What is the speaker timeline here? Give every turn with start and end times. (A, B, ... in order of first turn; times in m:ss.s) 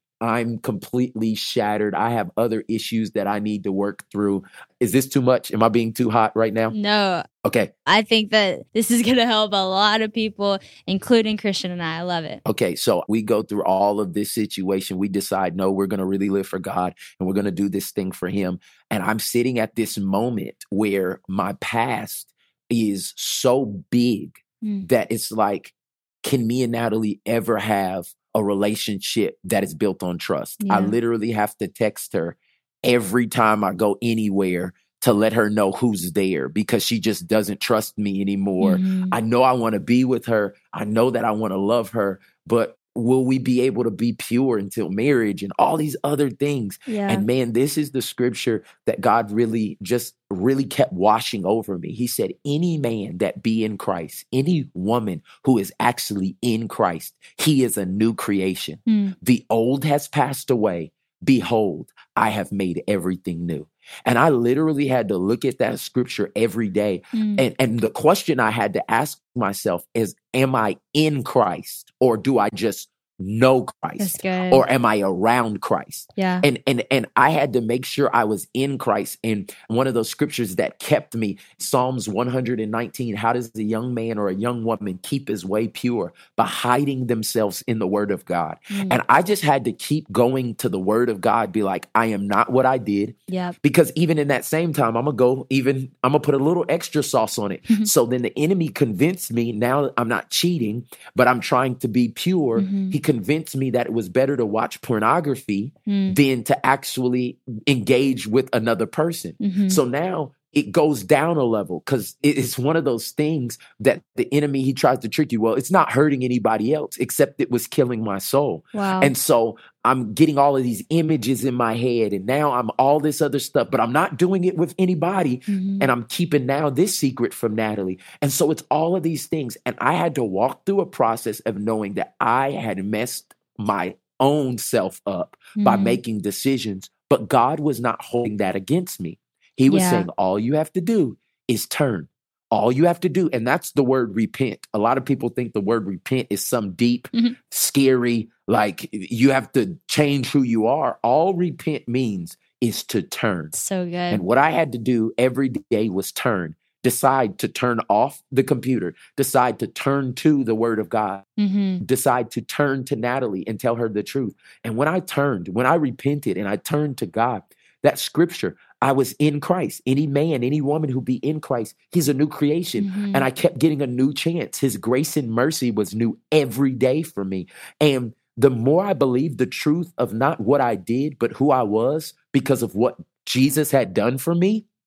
0:00.2-0:06.7 A
0:06.7-0:07.3 B
0:07.4-0:07.7 A
0:07.8-0:12.4 B
0:12.4-2:33.5 A
0:30.6-0:31.0 B
0:38.6-0:39.1 B
0:46.9-0:47.2 B
0:58.9-0:59.1 B
1:07.1-1:07.4 B
1:14.0-1:14.6 B
1:16.2-1:16.4 B
1:28.7-1:29.0 B
1:33.3-1:33.6 B
1:42.6-1:43.0 B
1:45.9-1:46.2 B
1:49.4-1:49.8 B
1:58.7-1:59.1 B
2:05.5-2:05.9 B
2:15.6-2:16.0 B
2:19.7-2:20.0 B
2:33.5-2:34.2 B
2:34.1-2:41.2 A
2:41.4-2:41.8 B
2:41.8-3:04.6 A
2:52.8-2:53.2 B